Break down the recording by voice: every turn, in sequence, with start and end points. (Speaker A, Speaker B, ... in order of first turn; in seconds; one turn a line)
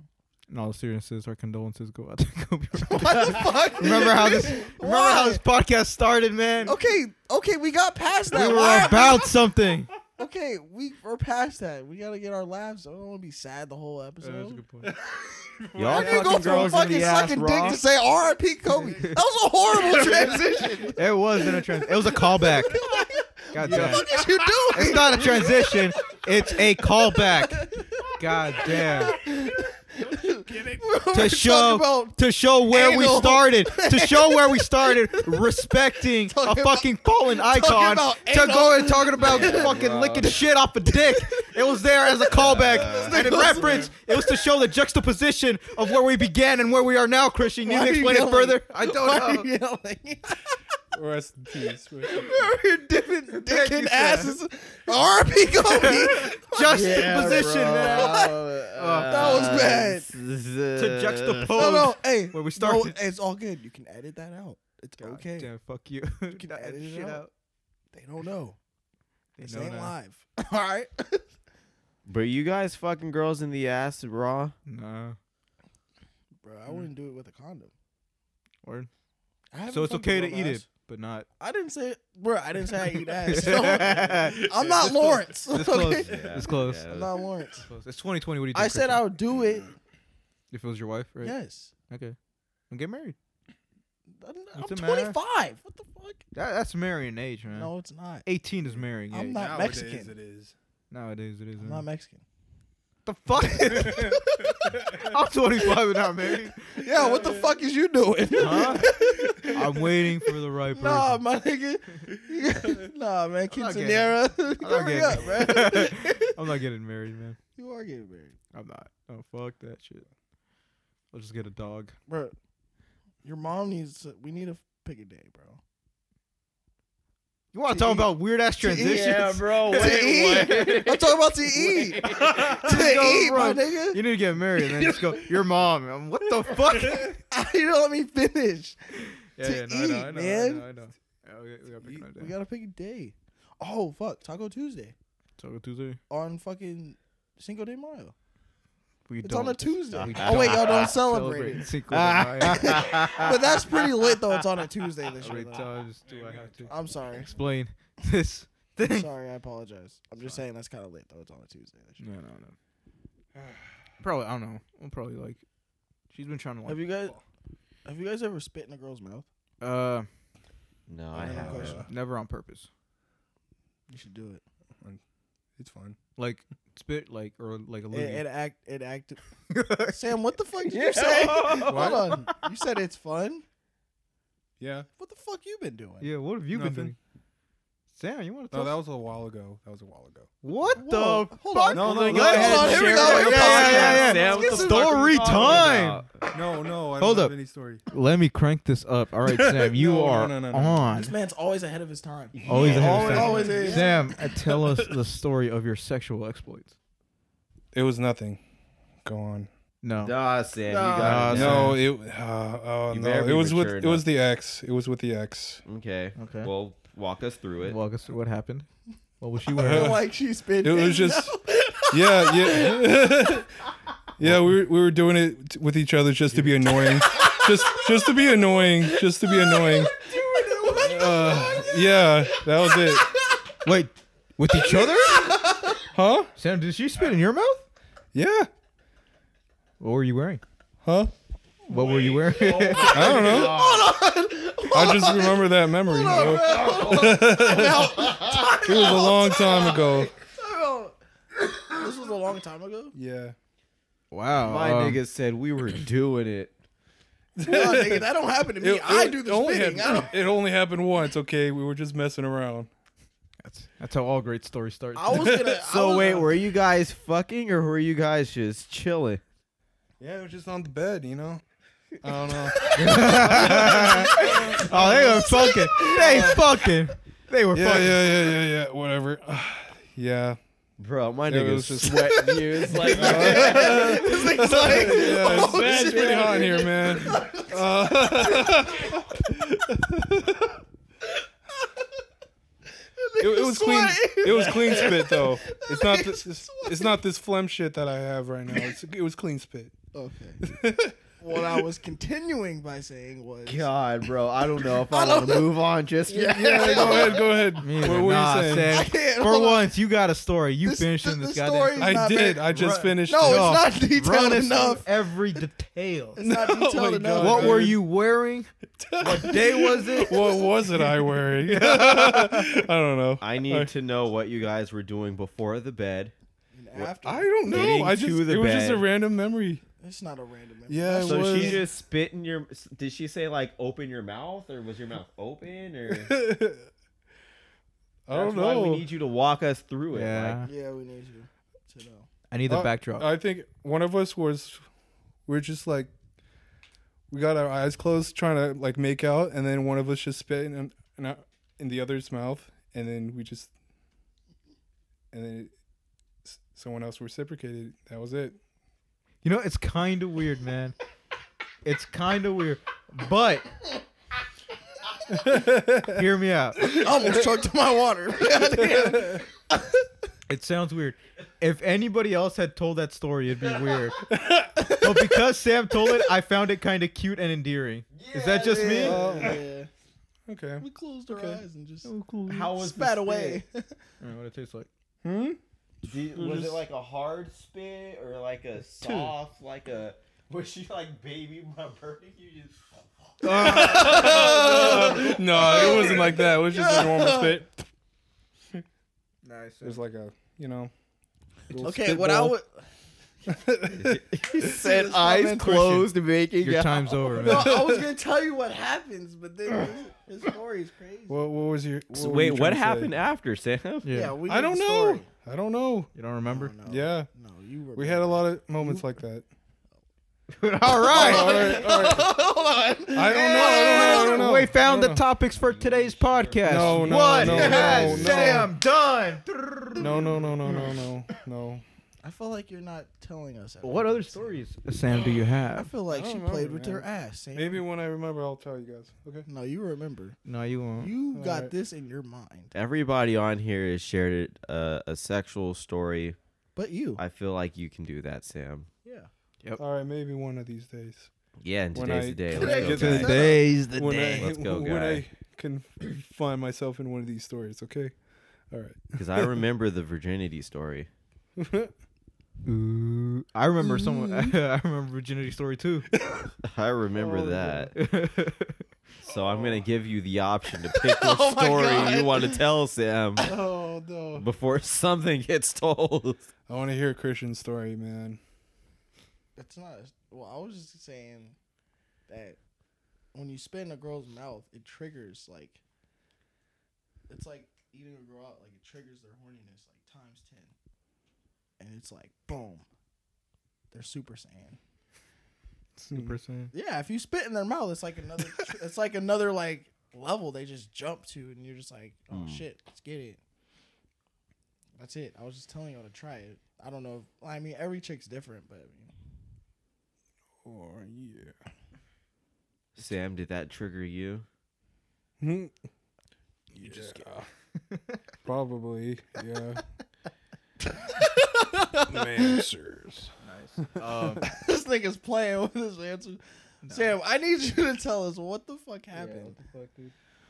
Speaker A: 0.5-6.8
Speaker B: 2.9-5.4
Speaker B: 6.6-9.3
Speaker A: 8.3-9.9
Speaker B: 10.2-14.7
Speaker A: 14.2-14.9
Speaker C: 14.8-16.6
Speaker D: 15.8-17.8
Speaker B: 15.8-32.2
Speaker A: 18.7-19.2
Speaker C: 20.0-20.9
Speaker A: 21.0-22.8
Speaker A: 23.5-24.1
Speaker C: 23.6-24.9
Speaker A: 24.7-29.2
Speaker C: 30.5-30.8
Speaker A: 31.1-49.5
Speaker B: 32.7-35.5
Speaker B: 36.3-39.8
Speaker D: 39.2-40.3
Speaker B: 40.9-41.5
Speaker D: 42.3-43.4
Speaker B: 42.8-44.4
Speaker C: 42.8-43.9
Speaker B: 47.6-50.6
Speaker C: 50.9-52.5
Speaker B: 52.0-60.1
Speaker A: 53.3-54.4
Speaker A: 55.7-59.7
Speaker D: 56.7-61.8
Speaker A: 60.8-63.0
Speaker B: 61.5-65.5
Speaker A: 65.0-67.3
Speaker B: 66.3-67.2
Speaker B: 67.9-68.6
Speaker A: 69.4-70.0
Speaker B: 69.4-71.3
Speaker D: 72.1-74.5
Speaker A: 74.7-75.2
Speaker B: 76.4-77.7
Speaker A: 78.6-78.9
Speaker B: 79.5-80.7
Speaker A: 79.7-81.3
Speaker B: 81.4-87.7
Speaker A: 83.3-84.5
Speaker C: 84.3-85.3
Speaker A: 85.5-87.0
Speaker D: 85.8-87.1
Speaker A: 87.6-89.1
Speaker B: 88.5-89.7
Speaker A: 90.5-91.3
Speaker B: 91.2-91.7
Speaker A: 91.9-92.2
Speaker A: 92.7-93.2
Speaker B: 94.1-96.2
Speaker A: 94.5-95.2
Speaker A: 96.3-97.7
Speaker B: 97.5-98.3
Speaker A: 98.2-99.5
Speaker B: 99.1-100.1
Speaker C: 99.3-100.5
Speaker A: 100.9-101.8
Speaker B: 101.6-102.2
Speaker A: 103.0-106.8
Speaker C: 103.7-105.1
Speaker B: 106.7-110.0
Speaker C: 107.0-107.5
Speaker A: 108.4-111.2
Speaker C: 108.9-109.5
Speaker B: 110.8-116.3
Speaker A: 113.5-117.4
Speaker B: 117.6-118.4
Speaker A: 118.5-120.1
Speaker A: 121.1-122.0
Speaker B: 122.1-122.3
Speaker B: 123.2-125.6
Speaker A: 127.5-129.4
Speaker B: 127.7-134.0
Speaker D: 128.8-131.2
Speaker D: 131.9-132.5
Speaker A: 132.0-137.2
Speaker B: 136.6-138.8
Speaker A: 139.4-142.3
Speaker B: 139.4-140.7
Speaker B: 142.2-144.9
Speaker A: 145.4-146.0
Speaker B: 146.1-148.1
Speaker A: 149.1-153.6
Speaker B: 149.2-155.7
Speaker D: 150.1-150.9
Speaker D: 152.2-153.3
Speaker A: 155.2-159.1
Speaker C: 156.1-157.3
Speaker B: 156.7-157.3
Speaker B: 158.9-162.0
Speaker A: 162.0-162.6
Speaker C: 163.3-163.8
Speaker A: 164.0-165.4
Speaker A: 166.1-166.8
Speaker B: 166.7-167.2
Speaker B: 167.8-169.3
Speaker A: 169.6-170.1
Speaker D: 170.9-171.9
Speaker B: 171.2-171.8
Speaker C: 171.2-171.9
Speaker A: 171.5-172.7
Speaker B: 173.9-174.4
Speaker C: 175.6-176.0
Speaker A: 176.2-178.2
Speaker B: 177.9-179.2
Speaker A: 179.5-180.1
Speaker B: 179.8-183.4
Speaker D: 180.7-182.0
Speaker A: 181.3-182.4
Speaker C: 184.6-184.9
Speaker B: 185.0-186.1
Speaker A: 186.0-187.0
Speaker C: 186.5-186.9
Speaker A: 187.9-188.8
Speaker C: 188.5-190.3
Speaker A: 190.4-196.0
Speaker B: 190.8-195.7
Speaker C: 191.7-193.0
Speaker D: 191.9-196.2
Speaker C: 193.5-193.9
Speaker C: 196.3-197.8
Speaker A: 197.0-197.3
Speaker A: 197.9-201.1
Speaker C: 199.3-200.8
Speaker B: 200.9-204.1
Speaker D: 202.3-203.9
Speaker A: 202.5-206.8
Speaker C: 202.8-203.8
Speaker C: 207.7-208.4
Speaker C: 209.0-209.5
Speaker A: 209.8-210.2
Speaker D: 210.0-211.8
Speaker B: 210.7-211.4
Speaker A: 210.9-211.8
Speaker C: 211.3-215.6
Speaker D: 212.9-214.1
Speaker D: 215.7-217.8
Speaker A: 216.2-216.5
Speaker A: 217.6-218.7
Speaker A: 219.2-220.0
Speaker C: 219.6-220.1
Speaker B: 219.6-223.3
Speaker C: 220.6-221.4
Speaker C: 221.9-223.5
Speaker C: 224.2-230.0
Speaker B: 226.9-227.9
Speaker B: 229.2-232.1
Speaker C: 230.6-233.1
Speaker B: 232.6-233.2
Speaker A: 233.6-235.3
Speaker B: 234.5-235.8
Speaker C: 235.9-236.3
Speaker A: 236.4-237.7
Speaker C: 238.1-238.5
Speaker A: 239.8-240.4
Speaker C: 240.8-241.1
Speaker A: 241.7-243.1
Speaker D: 241.8-243.9
Speaker B: 241.8-251.0
Speaker C: 242.9-243.6
Speaker C: 244.7-250.1
Speaker B: 251.5-252.9
Speaker C: 252.9-253.4
Speaker A: 254.1-255.0
Speaker D: 254.4-256.5
Speaker C: 257.4-258.1
Speaker B: 257.4-260.2
Speaker C: 258.6-262.7
Speaker A: 263.4-265.3
Speaker B: 265.0-266.4
Speaker C: 265.1-266.1
Speaker D: 265.6-269.2
Speaker C: 270.0-271.4
Speaker C: 272.0-275.2
Speaker A: 272.7-278.1
Speaker D: 273.0-275.0
Speaker B: 273.0-276.7
Speaker C: 275.9-276.4
Speaker C: 277.5-280.4
Speaker D: 280.8-286.5
Speaker C: 281.3-290.5
Speaker B: 281.9-289.1
Speaker B: 291.1-291.9
Speaker B: 292.9-297.0
Speaker C: 293.2-299.7
Speaker B: 299.9-300.4
Speaker C: 300.4-301.6
Speaker B: 301.2-303.7
Speaker D: 303.5-307.2
Speaker B: 304.6-305.6
Speaker B: 306.1-307.6
Speaker C: 306.2-308.9
Speaker A: 307.6-316.2
Speaker B: 308.7-309.8
Speaker B: 310.6-314.9
Speaker C: 311.8-313.6
Speaker B: 316.2-317.7
Speaker C: 316.2-317.8
Speaker A: 317.2-318.5
Speaker C: 318.8-323.7
Speaker D: 319.0-320.2
Speaker A: 319.1-319.9
Speaker A: 321.1-322.6
Speaker D: 323.2-326.1
Speaker B: 326.5-327.8
Speaker C: 327.0-329.6
Speaker D: 327.5-328.9
Speaker B: 329.8-331.7
Speaker C: 330.7-331.6
Speaker D: 331.0-336.1
Speaker C: 335.9-336.7
Speaker C: 338.1-338.9
Speaker D: 338.1-340.4
Speaker A: 339.9-340.5
Speaker B: 340.4-342.1
Speaker A: 342.3-343.1
Speaker C: 342.5-344.6
Speaker C: 345.3-345.9
Speaker C: 347.1-353.5
Speaker C: 355.1-355.5
Speaker C: 356.2-358.4
Speaker A: 359.2-360.8
Speaker A: 361.6-363.5
Speaker C: 365.1-366.1
Speaker A: 365.8-366.7
Speaker B: 366.6-369.7
Speaker C: 368.6-369.2
Speaker A: 370.3-374.0
Speaker C: 374.1-374.6
Speaker B: 374.6-375.1
Speaker A: 374.7-379.0
Speaker D: 377.9-379.2
Speaker B: 378.5-379.7
Speaker C: 378.8-379.4
Speaker C: 380.3-381.4
Speaker B: 380.6-381.9
Speaker A: 381.8-382.7
Speaker D: 382.3-383.4
Speaker B: 382.5-383.7
Speaker A: 384.0-384.7
Speaker C: 385.0-385.4
Speaker D: 385.9-395.9
Speaker C: 386.1-386.6
Speaker A: 388.8-389.1
Speaker A: 393.2-394.3
Speaker C: 393.3-397.6
Speaker B: 393.4-397.4
Speaker A: 399.2-399.8
Speaker C: 399.6-400.7
Speaker C: 401.5-402.4
Speaker B: 401.6-402.6
Speaker C: 403.3-404.0
Speaker D: 403.8-407.3
Speaker B: 404.2-405.9
Speaker A: 406.4-407.6
Speaker B: 407.1-411.2
Speaker C: 407.3-407.9
Speaker C: 411.1-412.9
Speaker D: 411.9-413.9
Speaker A: 413.8-414.1
Speaker B: 413.9-415.1
Speaker C: 414.3-415.9
Speaker A: 415.9-416.5
Speaker B: 416.3-418.8
Speaker C: 416.6-417.1
Speaker C: 417.8-419.2
Speaker A: 420.3-421.6
Speaker B: 420.8-424.5
Speaker C: 420.9-422.1
Speaker C: 422.9-425.0
Speaker A: 423.4-430.3
Speaker B: 425.6-428.4
Speaker C: 426.4-428.5
Speaker D: 427.1-428.2
Speaker C: 429.8-431.6
Speaker B: 432.0-434.4
Speaker A: 433.6-435.7
Speaker B: 435.1-437.6
Speaker C: 435.9-439.3
Speaker B: 439.3-440.2
Speaker A: 440.2-440.9
Speaker B: 440.8-442.5
Speaker C: 441.1-441.5
Speaker D: 442.5-446.2
Speaker B: 446.6-447.0
Speaker D: 447.0-448.7
Speaker B: 448.8-449.1
Speaker C: 449.6-451.1
Speaker D: 451.4-455.0
Speaker C: 451.7-457.9
Speaker B: 452.3-453.4
Speaker A: 452.6-454.3
Speaker C: 458.5-459.4
Speaker D: 459.0-460.9
Speaker C: 461.4-461.7
Speaker A: 462.4-465.9
Speaker B: 463.8-464.3
Speaker C: 466.0-466.3
Speaker D: 466.4-467.7
Speaker C: 466.9-467.7
Speaker A: 467.7-468.7
Speaker D: 469.1-473.3
Speaker C: 469.2-469.6
Speaker B: 470.8-472.4
Speaker B: 473.2-473.9
Speaker C: 473.3-474.2
Speaker D: 474.2-476.3
Speaker C: 476.5-478.2
Speaker B: 479.4-481.4
Speaker B: 482.1-482.4
Speaker B: 483.1-485.6
Speaker B: 487.1-490.5
Speaker B: 491.6-492.6
Speaker B: 493.7-494.6
Speaker A: 495.8-496.5
Speaker B: 496.5-503.2
Speaker D: 502.1-502.4
Speaker B: 504.8-508.9
Speaker C: 510.4-511.4
Speaker D: 512.8-514.3
Speaker C: 515.2-515.5
Speaker A: 516.5-518.0
Speaker C: 516.5-517.3
Speaker C: 518.2-519.6
Speaker B: 520.7-522.4
Speaker C: 521.8-523.1
Speaker A: 523.2-524.3
Speaker C: 523.9-524.3
Speaker B: 524.2-529.4
Speaker A: 526.6-527.0
Speaker A: 528.9-529.9